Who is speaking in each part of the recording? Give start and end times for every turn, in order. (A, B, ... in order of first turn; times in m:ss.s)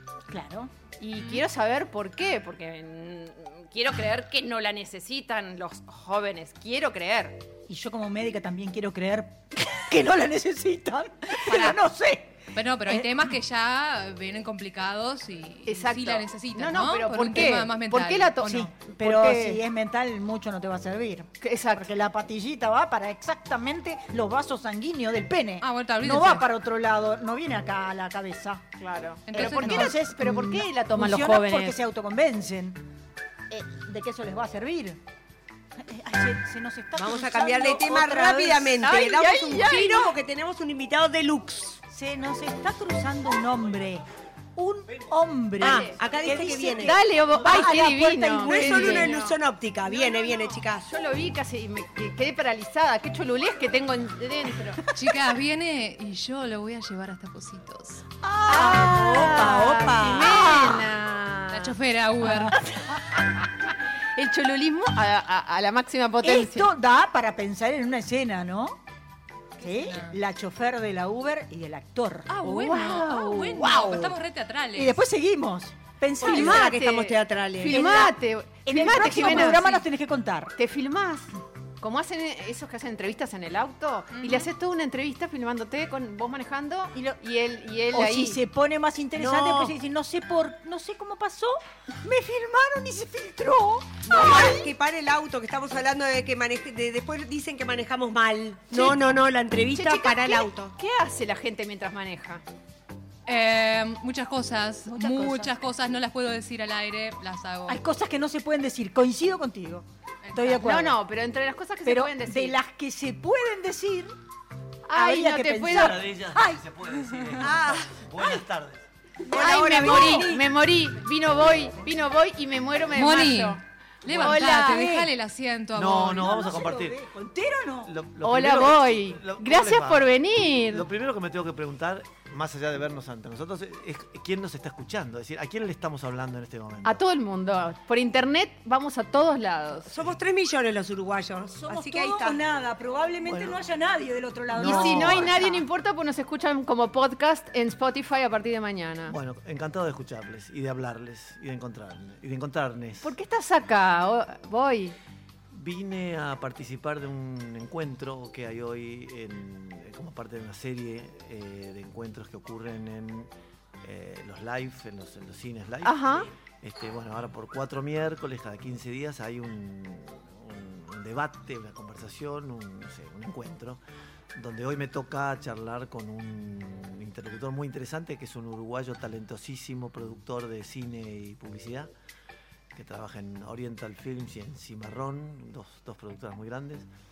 0:00.3-0:00.7 A
0:01.0-0:07.4 B
0:07.7-0:13.1 A
0:11.5-0:11.8 C
0:12.5-0:18.6 C
0:15.6-0:19.6 B
0:18.4-0:28.6 A
0:21.4-0:21.9 B
0:25.6-0:26.4 C
0:28.8-0:31.8 B
0:29.3-0:30.0 C
0:29.3-0:32.8 A
0:33.5-0:35.0 A
0:35.8-0:39.7 A
0:37.0-0:41.8 D
0:38.9-0:40.1 B
0:41.9-0:49.1 A
0:45.6-0:47.0 D
0:45.6-0:45.9 B
0:46.8-0:49.4 B
0:48.4-0:50.9 D
0:49.9-0:54.8 B
0:54.9-0:58.0 C
0:58.2-1:00.7 A
0:58.5-1:01.8 B
0:58.6-1:00.7 D
1:01.5-1:02.6 C
1:04.1-1:06.7 B
1:06.2-1:08.8 A
1:09.6-1:14.1 A
1:09.6-1:10.2 C
1:12.3-1:15.0 C
1:13.0-1:13.4 B
1:14.7-1:16.8 A
1:16.2-1:18.0 D
1:16.2-1:19.8 B
1:17.6-1:20.5 A
1:20.6-1:28.4 B
1:24.1-1:24.5 C
1:27.9-1:34.7 A
1:29.2-1:29.7 D
1:34.1-1:40.7 D
1:38.7-1:39.0 B
1:39.7-1:42.4 B
1:43.3-1:47.8 C
1:44.8-1:45.5 A
1:47.7-1:51.0 A
1:50.2-1:50.6 C
1:50.6-1:52.6 B
1:51.8-1:54.1 A
1:54.9-1:56.0 B
1:54.9-1:56.6 A
1:55.7-1:58.8 E
1:57.4-1:57.9 A
1:59.3-2:00.5 A
1:59.3-2:04.8 B
1:59.3-2:00.3 D
2:02.9-2:06.4 C
2:04.1-2:05.1 A
2:05.7-2:07.0 E
2:06.1-2:07.9 A
2:07.8-2:10.1 E
2:08.2-2:10.8 B
2:10.7-2:17.0 E
2:16.8-2:19.9 B
2:19.9-2:22.4 D
2:21.5-2:25.5 A
2:23.2-2:23.6 E
2:24.5-2:25.6 E
2:24.6-2:29.2 B
2:29.1-2:33.1 E
2:33.0-2:35.0 B
2:35.5-2:43.3 E
2:43.8-2:53.8 E
2:45.8-2:46.3 B
2:54.3-3:01.9 E
3:02.7-3:06.9 E